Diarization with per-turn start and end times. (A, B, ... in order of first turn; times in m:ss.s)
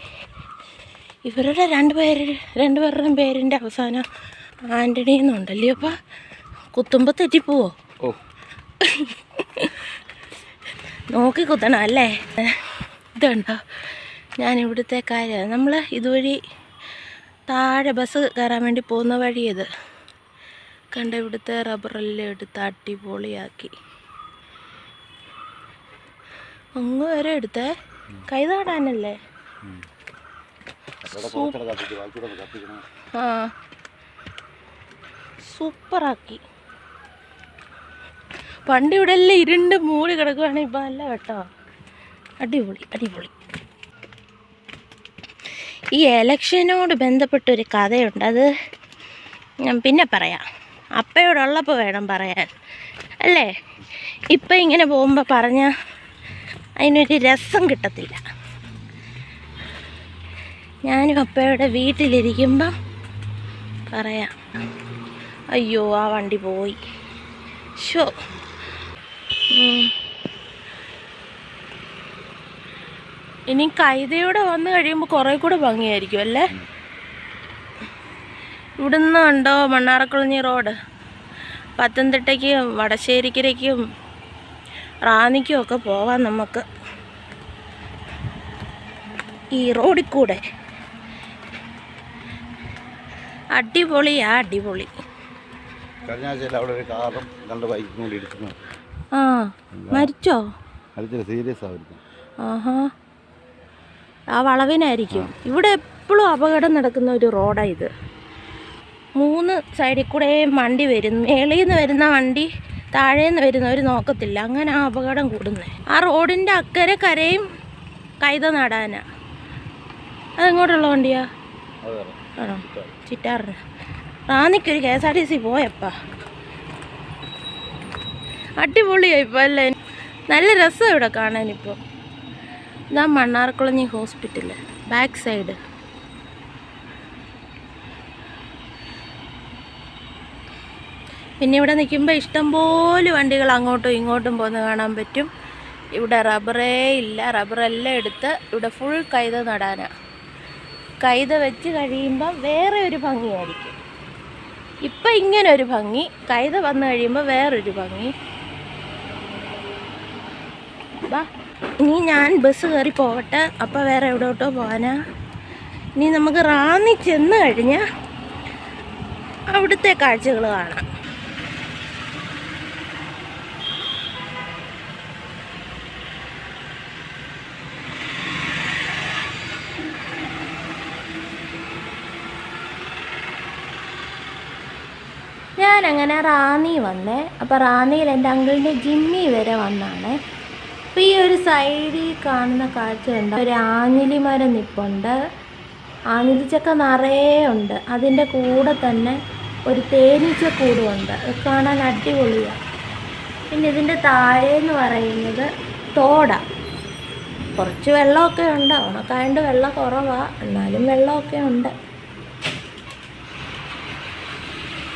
0:01.2-0:04.1 A
0:04.7-0:06.0 A
0:06.7-0:07.8 A
0:08.8-0:09.9 A
0:11.1-0:13.6 A
0:14.4-0:16.4 A
0:17.5-0:19.7 A
0:20.9-0:23.7 A
0:26.8-0:27.7 A
0:28.3-0:29.2 A
0:31.0-0:32.8 B
0:31.1-0:31.6 A
0:33.2-0:33.5 A
0:35.4-0:36.4 A
0:38.7-0:41.4 A
0:42.4-0:43.3 A
0:46.0-0:48.5 A
0:49.6-0:50.4 A
0:51.0-0:52.5 A
0:53.2-0:53.5 A
0:54.3-0:55.7 A
0:56.8-0:58.2 A
1:00.9-1:02.7 A
1:03.9-1:04.4 A
1:05.5-1:06.8 A
1:07.8-1:08.1 A
1:09.5-1:09.9 A
1:13.5-1:16.5 A
1:18.8-1:20.8 A
1:21.8-1:23.8 A
1:25.1-1:26.6 A
1:29.6-1:30.4 A
1:33.5-1:34.9 A
1:36.0-1:38.6 B
1:39.1-1:40.4 A
1:39.8-1:40.1 B
1:41.0-1:42.0 B
1:42.4-1:42.9 A
1:44.3-1:47.9 A
1:49.2-1:57.5 A
1:58.2-1:59.0 A
2:00.4-2:01.3 A
2:01.8-2:02.9 B
2:02.4-2:03.6 A
2:04.3-2:06.0 A
2:08.6-2:09.8 A
2:10.3-2:11.8 A
2:12.9-2:15.6 A
2:21.4-2:25.3 A
2:25.9-2:29.9 A
2:31.0-2:33.8 A
2:34.8-2:38.1 A
2:41.8-2:45.0 A
2:46.0-2:47.8 A
2:49.5-2:50.8 A
3:05.6-3:10.2 A
3:11.0-3:15.1 A
3:16.1-3:22.6 A
3:23.5-3:26.4 A
3:27.6-3:31.7 A